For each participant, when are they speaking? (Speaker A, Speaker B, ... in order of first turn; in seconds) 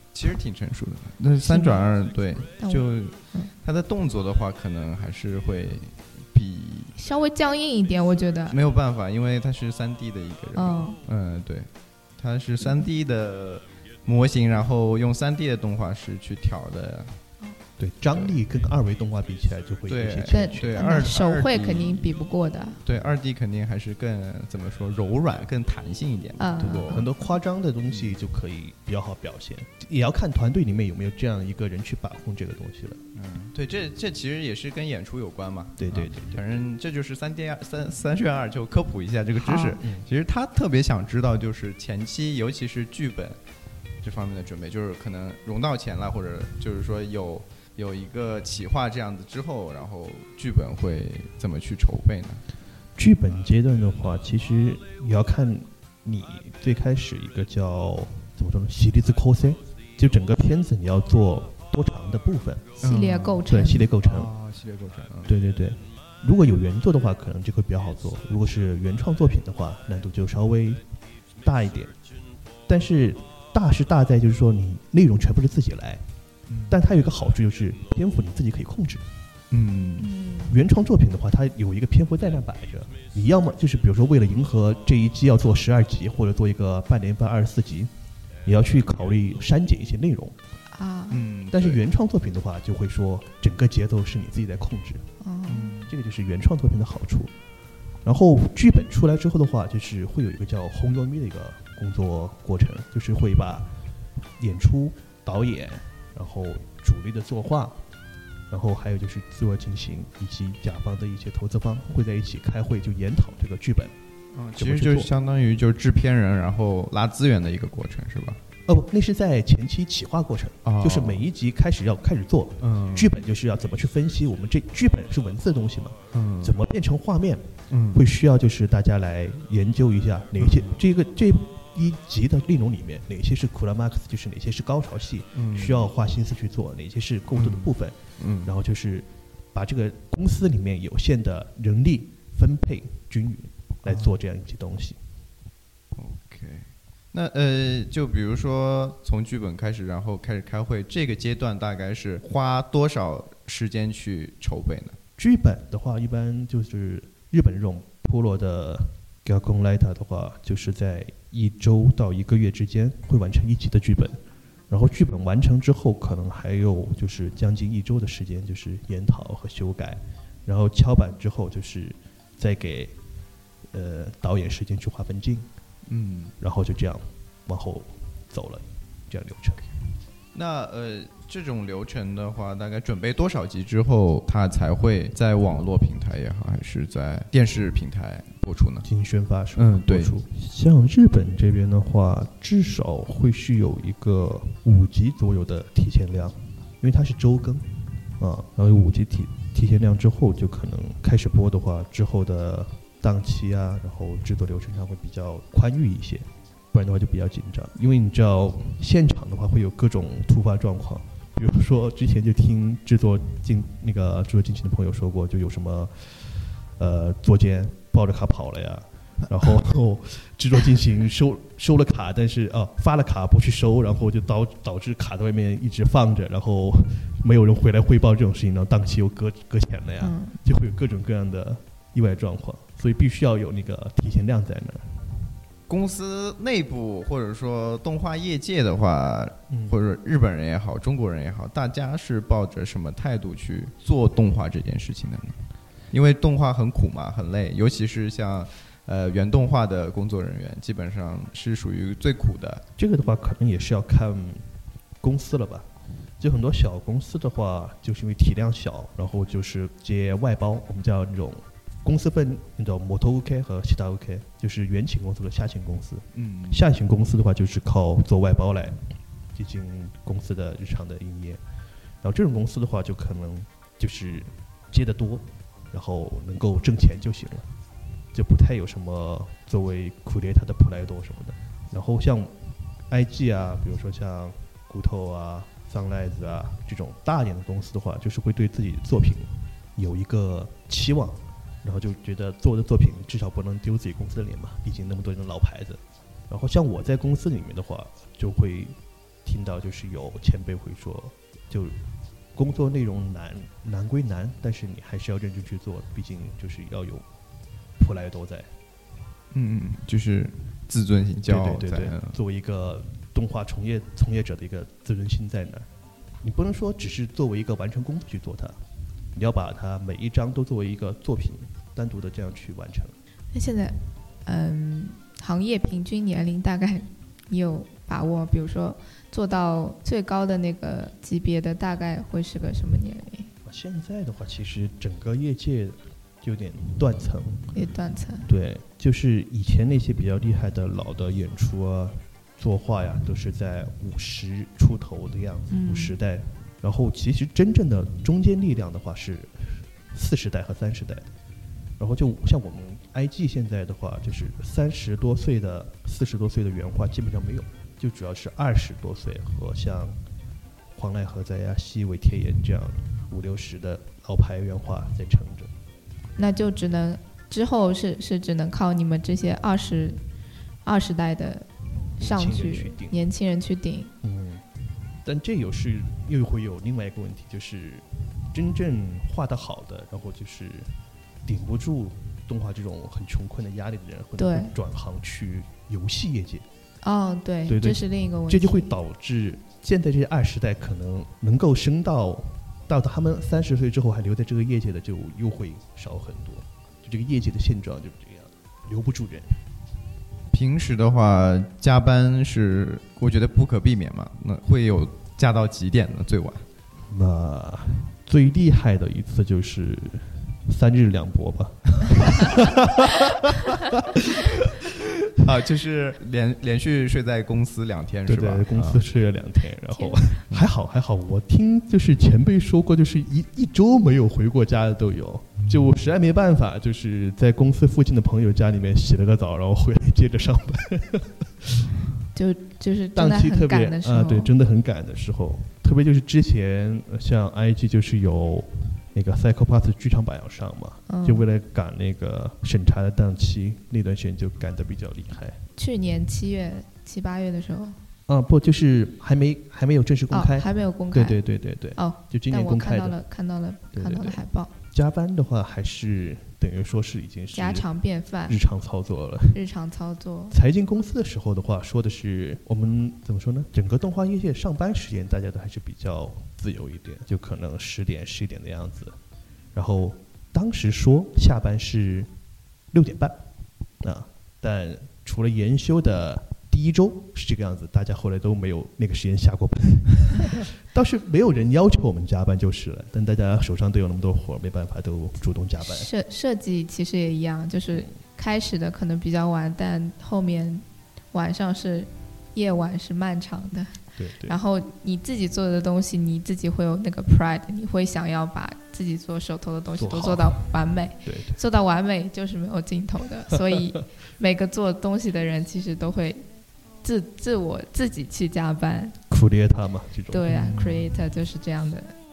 Speaker A: 0.1-6.9, 8.5-17.1, 18.1-18.4, 19.9-22.1, 22.8-27.0, 33.1-43.4, 44.0-52.4, 62.8-63.4, 64.0-65.3, 76.5-76.8, 79.5-80.1, 91.1-91.8, 95.5-95.9, 114.3-118.4, 120.6-121.3, 122.6-123.1, 126.1-126.5, 127.7-128.0, 130.4-130.8, 135.3-135.9, 137.3-138.5, 143.8-144.2, 145.9-155.0, 175.9-176.3, 180.3-188.9, 189.6-190.1, 235.7-252.6, 266.1-266.6, 309.3-312.1, 400.3-406.4, 415.1-418.8, 425.4-425.7, 510.3-510.8
Speaker B: 1.4-1.8, 2.6-3.5, 7.0-8.6, 10.5-11.0, 12.6-12.9, 20.3-22.8, 26.4-27.4, 39.4-39.8, 62.8-63.9, 80.0-80.6, 90.7-91.3, 95.2-95.8, 230.0-230.4, 323.3-333.3, 337.5-338.3, 345.5-345.9, 366.2-370.0, 370.6-371.5, 372.0-373.9, 384.2-384.5, 386.8-388.7, 419.7-420.2, 432.1-434.3, 440.9-441.2, 445.6-447.8, 450.1-451.2, 451.7-454.5, 457.3-458.4, 459.3-460.4, 485.6-506.2, 506.8-508.9, 510.1-511.9
Speaker C: 17.8-21.0, 26.6-33.0, 35.8-36.5, 39.8-40.1, 53.0-62.8, 63.4-64.3, 65.2-70.8, 71.4-71.9, 72.7-76.0, 76.7-79.0, 80.5-87.9, 88.4-90.4, 91.5-95.1, 95.8-97.3, 98.0-103.7, 104.4-107.8, 108.5-113.9, 114.5-115.1, 118.7-145.0, 155.2-172.9, 173.7-175.5, 176.4-179.7, 188.8-197.7, 198.2-235.3, 239.5-239.8, 252.8-254.4, 255.0-268.8, 269.3-271.4, 272.0-277.5, 278.1-282.4, 282.9-301.8, 302.3-307.1, 307.8-308.5, 311.2-315.7, 316.2-318.6, 319.1-322.9, 333.4-337.5, 338.3-351.1, 351.8-360.0, 360.7-365.5, 372.0-373.0, 374.0-374.4, 375.0-380.7, 381.2-386.4, 387.5-399.4, 406.9-414.5, 418.1-431.7, 432.9-445.4, 448.1-453.0, 453.7-457.6, 458.3-459.4, 460.3-469.0, 469.5-472.1, 472.7-473.2, 473.8-485.9, 494.0-494.4, 499.8-500.4, 501.0-501.4, 509.1-510.6